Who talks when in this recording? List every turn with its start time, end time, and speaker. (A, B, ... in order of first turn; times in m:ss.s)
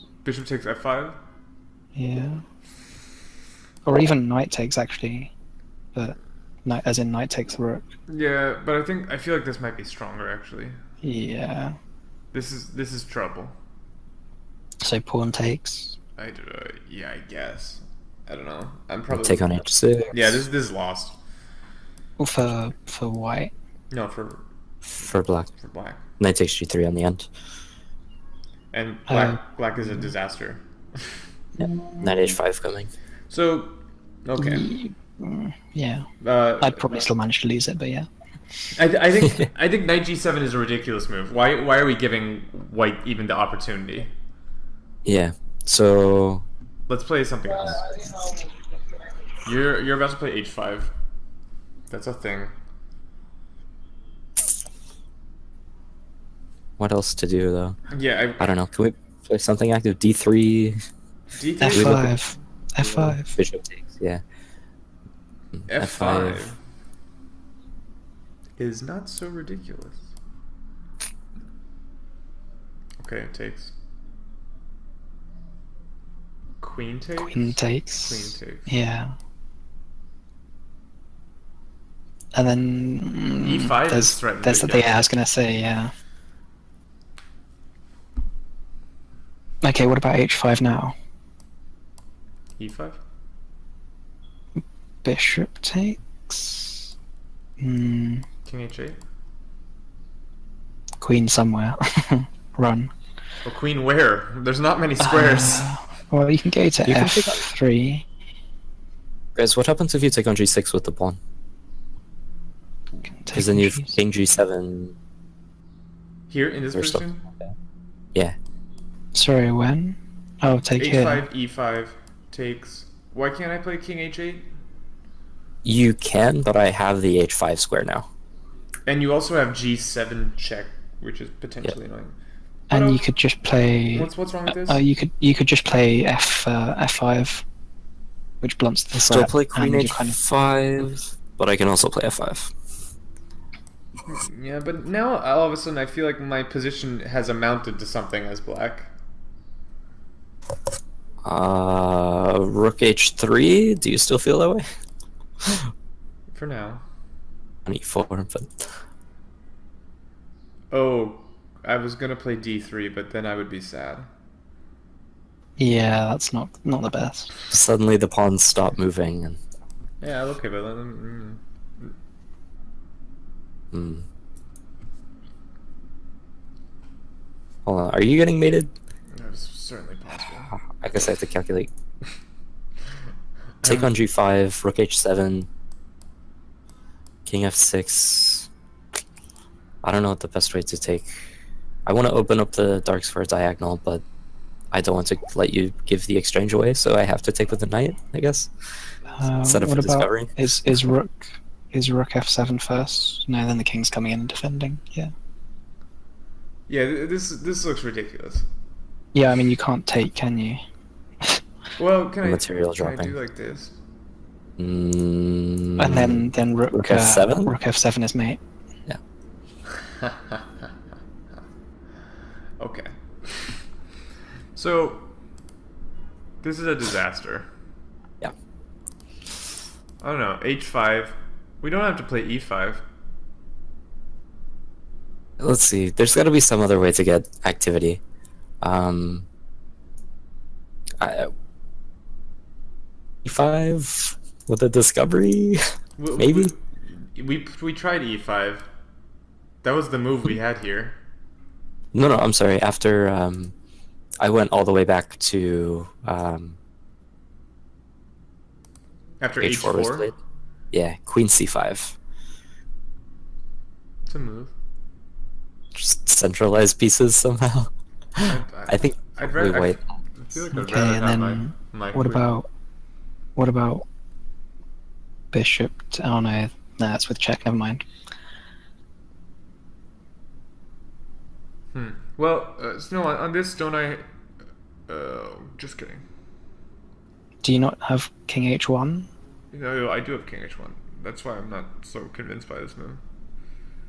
0:00.2-0:01.2 A
0:02.0-0:02.4 B
0:03.9-0:05.3 B
0:06.0-0:07.9 B
0:08.1-0:10.8 A
0:11.0-0:11.7 B
0:12.3-0:13.5 A
0:14.8-0:16.0 B
0:16.2-0:19.6 A
0:19.1-0:20.4 C
0:20.1-0:21.2 A
0:22.2-0:23.5 B
0:23.9-0:24.4 A
0:25.0-0:25.5 C
0:25.6-0:26.0 A
0:26.2-0:27.3 C
0:28.7-0:31.1 A
0:29.1-0:29.4 B
0:31.6-0:32.4 B
0:31.6-0:32.9 C
0:33.3-0:34.7 A
0:34.4-0:36.1 B
0:36.2-0:37.0 A
0:36.6-0:38.1 B
0:38.7-0:44.1 A
0:45.0-0:46.4 C
0:46.9-0:48.1 A
0:49.4-0:50.9 A
0:51.9-0:52.5 A
0:56.8-0:57.8 C
0:57.9-0:58.5 A
0:58.4-1:00.8 C
1:01.3-1:02.0 A
1:01.6-1:03.4 B
1:01.6-1:02.1 C
1:02.8-1:04.2 C
1:05.7-1:06.5 C
1:05.7-1:06.6 A
1:08.6-1:10.1 A
1:13.0-1:13.7 A
1:16.6-1:18.7 A
1:17.2-1:19.1 B
1:22.3-1:25.9 B
1:23.4-1:25.1 A
1:29.6-1:30.9 B
1:32.6-1:33.0 A
1:35.0-1:36.9 B
1:37.6-1:38.2 B
1:38.4-1:39.0 A
1:41.0-1:42.9 B
1:43.4-1:45.7 A
1:45.0-1:48.1 B
1:46.9-1:47.4 C
1:49.4-1:51.2 C
1:53.2-1:54.0 B
1:53.3-1:54.9 C
1:56.3-1:57.3 A
1:56.7-1:57.5 C
1:59.1-2:01.3 B
2:00.8-2:04.5 A
2:05.6-2:08.1 C
2:08.8-2:12.2 A
2:12.7-2:13.1 A
2:12.7-2:17.4 B
2:13.9-2:14.8 A
2:18.4-2:20.2 B
2:18.9-2:22.5 C
2:24.1-2:28.9 A
2:31.2-2:34.6 C
2:36.3-2:36.8 A
2:37.7-2:38.7 C
2:40.7-2:44.1 A
2:45.6-2:47.3 B
2:47.5-2:49.4 C
2:50.0-2:51.9 A
2:53.7-2:54.0 C
2:57.7-2:58.7 C
2:59.1-3:00.5 A
3:00.5-3:01.7 C
3:03.6-3:03.9 A
3:03.6-3:05.5 C
3:07.2-3:08.5 C
3:09.8-3:11.2 C
3:11.8-3:14.0 C
3:14.7-3:18.5 C
3:19.2-3:25.1 B
3:19.2-3:20.3 C
3:26.7-3:28.5 A
3:29.2-3:30.6 B
3:31.8-3:33.8 A
3:32.2-3:33.1 C
3:34.6-3:37.5 C
3:35.8-3:38.4 B
3:40.0-3:40.4 A
3:42.6-3:43.6 A
3:44.5-3:45.1 A
3:46.4-3:47.5 A
3:50.0-3:52.8 A
3:55.4-3:58.0 C
3:58.6-3:59.2 C
4:01.0-4:01.3 C
4:03.2-4:05.6 C
4:06.0-4:08.7 A
4:06.2-4:06.5 C
4:09.6-4:11.0 A
4:11.9-4:13.5 C
4:14.2-4:16.6 C
4:19.2-4:20.1 A
4:19.4-4:20.1 C
4:20.7-4:22.0 C
4:24.1-4:24.5 A
4:25.7-4:29.8 C
4:28.2-4:32.3 A
4:30.5-4:32.5 B
4:33.4-4:33.8 B
4:35.3-4:37.8 B
4:41.7-4:44.1 A
4:44.9-4:46.0 A
4:47.4-4:49.1 B
4:49.5-4:53.0 A